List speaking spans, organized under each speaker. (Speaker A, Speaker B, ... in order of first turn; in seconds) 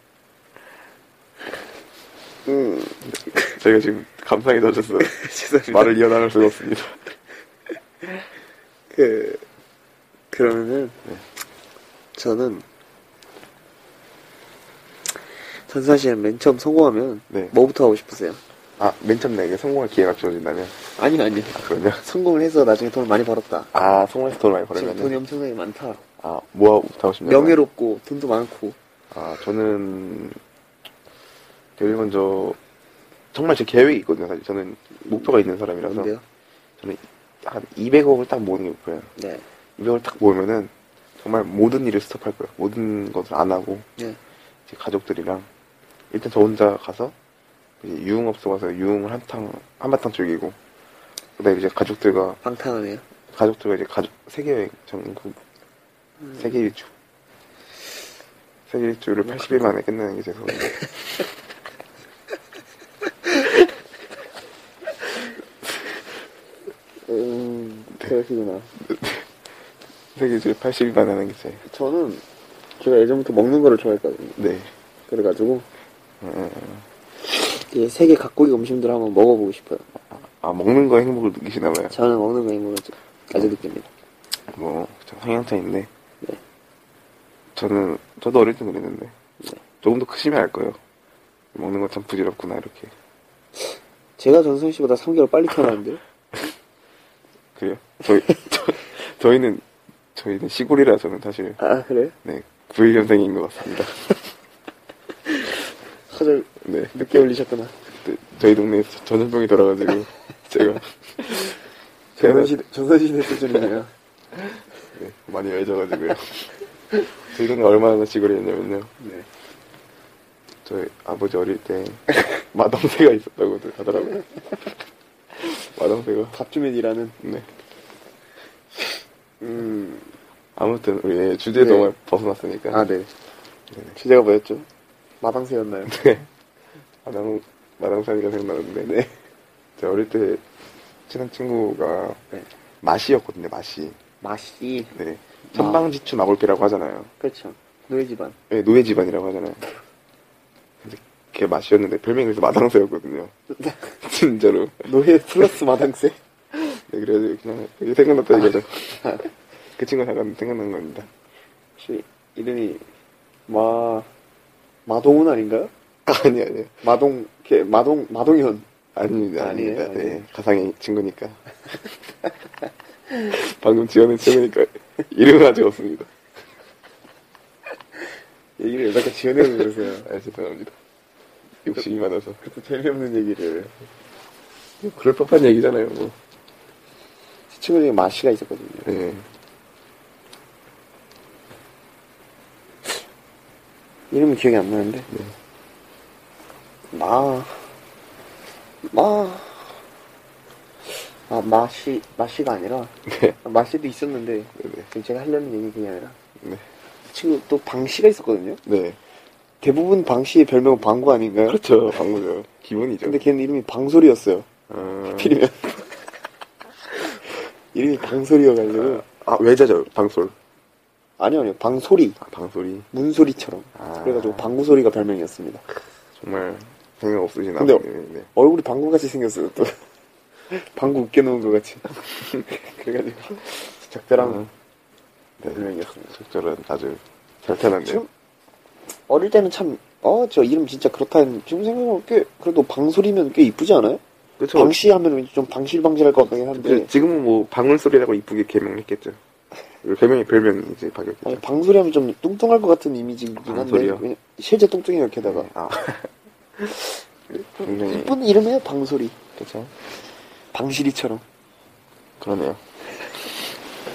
Speaker A: 2.5-3.1, 5.0-6.1, 8.9-9.4, 10.3-11.0, 12.2-12.7, 15.6-18.4, 20.9-23.7, 24.7-26.0, 27.2-28.8, 35.8-36.2, 39.2-39.5, 52.4-53.0, 59.3-59.7, 67.0-68.7, 71.6-72.2, 72.8-74.4, 75.1-75.7, 77.3-79.9, 81.9-83.9, 94.2-96.0, 101.6-102.2, 106.1-107.8, 112.2-113.9, 119.0-119.3, 126.3-127.2, 129.4-130.1, 131.6-131.9, 132.7-133.1, 133.9-134.7, 135.2-136.1, 138.8-139.2, 144.2-144.9, 145.5-145.8, 147.2-148.4, 153.6-153.9, 154.8-156.2, 158.4-159.3, 161.8-162.9, 163.5-164.1, 164.9-165.7, 166.8-168.7, 169.4-170.2, 178.6-180.1, 182.4-183.7, 187.5-188.9, 194.1-195.1, 196.9-197.7, 198.8-199.8, 201.3-206.2, 207.1-208.6, 209.6-211.6, 213.0-214.5, 215.1-215.9, 217.7-219.1, 221.2-222.2, 222.9-225.7, 227.6-229.8, 230.5-234.4, 235.5-236.2, 237.8-238.1, 239.1-244.0, 244.6-246.9, 251.2-255.5, 257.3-259.2, 260.5-261.2
Speaker B: 3.1-7.0, 17.3-17.6, 18.8-20.8, 21.5-22.0, 23.7-25.2, 26.2-27.6, 29.1-30.4, 31.8-32.6, 33.3-36.1, 36.8-39.1, 39.8-43.9, 44.7-45.5, 46.1-47.1, 47.8-50.6, 51.4-52.4, 53.3-55.4, 56.4-56.9, 58.7-60.9, 68.8-69.3, 70.2-71.6, 74.4-74.7, 76.2-76.9, 80.1-82.0, 84.5-85.9, 87.6-89.2, 89.8-90.8, 91.5-92.9, 97.5-101.6, 102.2-104.2, 106.6-107.3, 108.0-111.6, 112.2-112.6, 114.9-118.9, 120.7-124.3, 125.3-126.4, 127.2-127.5, 130.6-132.9, 133.7-134.0, 135.9-136.3, 137.1-138.9, 139.8-140.4, 141.1-142.2, 142.8-144.0, 144.9-147.1, 148.5-149.6, 150.8-153.3, 154.0-154.9, 156.6-159.1, 159.8-161.1, 166.1-166.8, 168.9-171.6, 173.2-176.1, 179.4-180.8, 181.6-182.4, 184.8-186.2, 188.8-189.3, 203.1-203.4, 204.6-204.9, 206.4-206.7, 208.7-209.0, 211.4-213.2, 214.7-215.4, 218.7-220.3, 222.2-222.9, 223.8-224.6, 226.2-228.3, 234.2-234.5, 235.4-238.0, 244.4-244.8, 246.6-249.2, 249.8-251.4, 253.4-254.1, 255.2-258.2, 259.4-259.7, 262.2-262.6